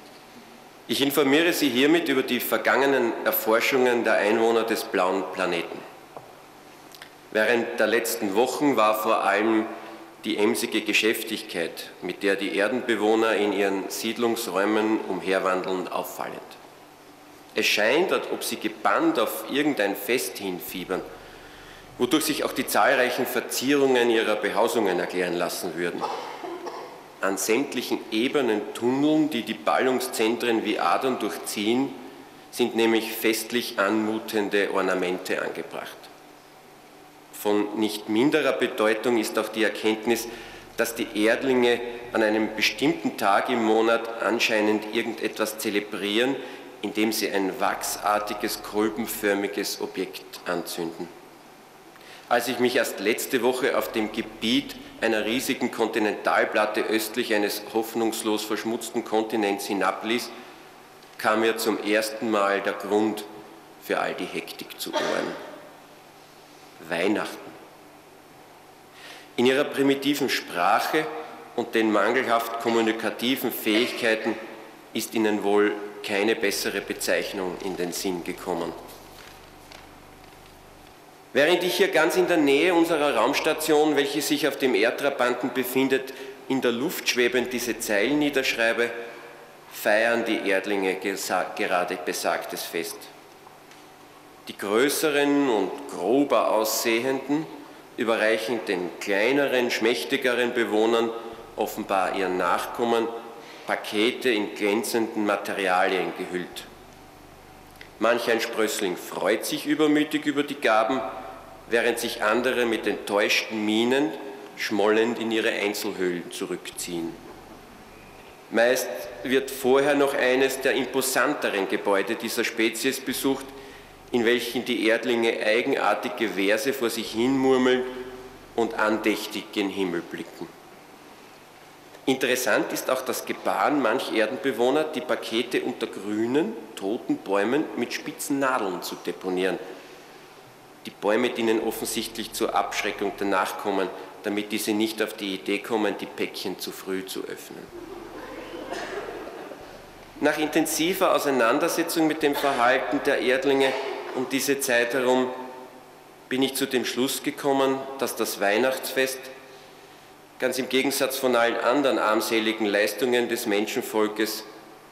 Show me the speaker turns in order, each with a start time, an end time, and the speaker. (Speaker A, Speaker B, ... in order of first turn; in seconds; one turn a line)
Speaker A: 0.9-5.8
Speaker A: 7.3-9.7
Speaker A: 10.2-16.6
Speaker A: 17.5-21.0
Speaker A: 22.0-26.0
Speaker A: 27.2-31.9
Speaker A: 32.5-36.1
Speaker A: 37.3-51.1
Speaker A: 52.3-60.3
Speaker A: 61.2-63.2
Speaker A: 63.8-65.4
Speaker A: 66.8-67.5
Speaker A: 69.4-74.4
Speaker A: 74.9-78.7
Speaker A: 81.3-88.9
Speaker A: 89.7-93.1
Speaker A: 94.5-103.1
Speaker A: 103.7-106.7
Speaker A: 108.0-111.1
Speaker A: 111.7-117.2
Speaker A: 118.5-123.5
Speaker A: 124.1-127.9
Speaker A: 128.5-130.5
Speaker A: 132.1-139.6
Speaker A: 140.8-147.7
Speaker A: 150.2-155.3
Speaker A: 156.3-159.3
Speaker A: 160.4-164.4